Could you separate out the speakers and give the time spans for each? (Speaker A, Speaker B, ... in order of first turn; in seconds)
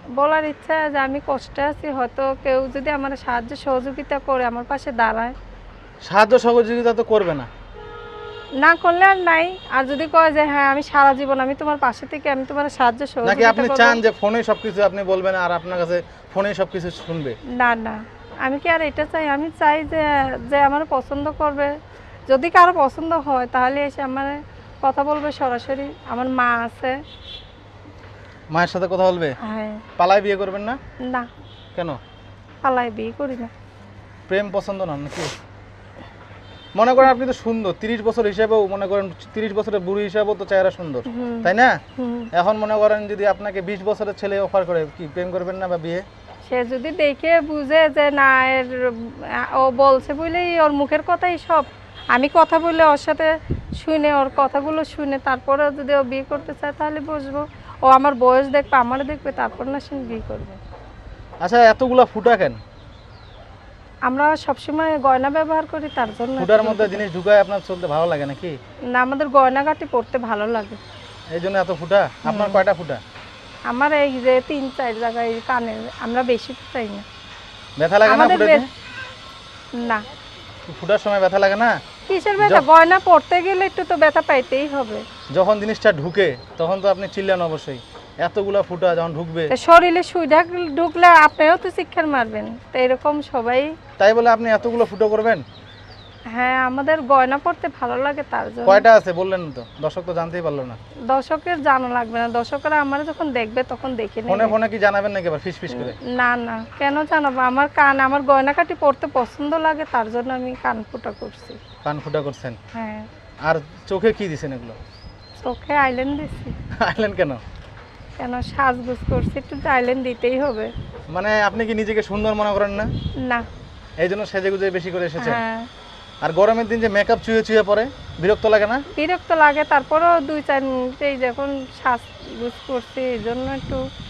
Speaker A: 0.1-5.3, 8.6-14.0, 17.5-21.7, 22.3-27.0, 29.4-29.8, 31.0-31.3, 32.6-33.5, 41.1-42.3, 46.5-60.6, 64.0-67.0, 68.9-70.8, 72.2-72.6, 73.7-77.0, 78.0-78.6, 79.7-80.0, 82.1-85.0, 89.5-93.7, 96.3-98.8, 101.1-104.5, 105.7-111.6, 112.7-113.1, 115.4-116.5, 118.2-120.7, 123.2-123.5, 125.2-125.7, 128.9-133.8
Speaker B: 6.0-7.5, 13.2-17.4, 28.5-29.4, 30.0-30.8, 34.3-35.3, 36.8-41.8, 42.3-46.0, 61.4-62.6, 66.4-68.6, 71.3-73.0, 77.8-78.7, 80.7-81.8, 82.4-82.7, 85.3-89.5, 94.0-95.4, 98.6-100.8, 104.3-106.0, 111.8-112.6, 113.4-114.8, 116.8-117.4, 121.1-122.9, 124.0-125.4, 126.2-128.8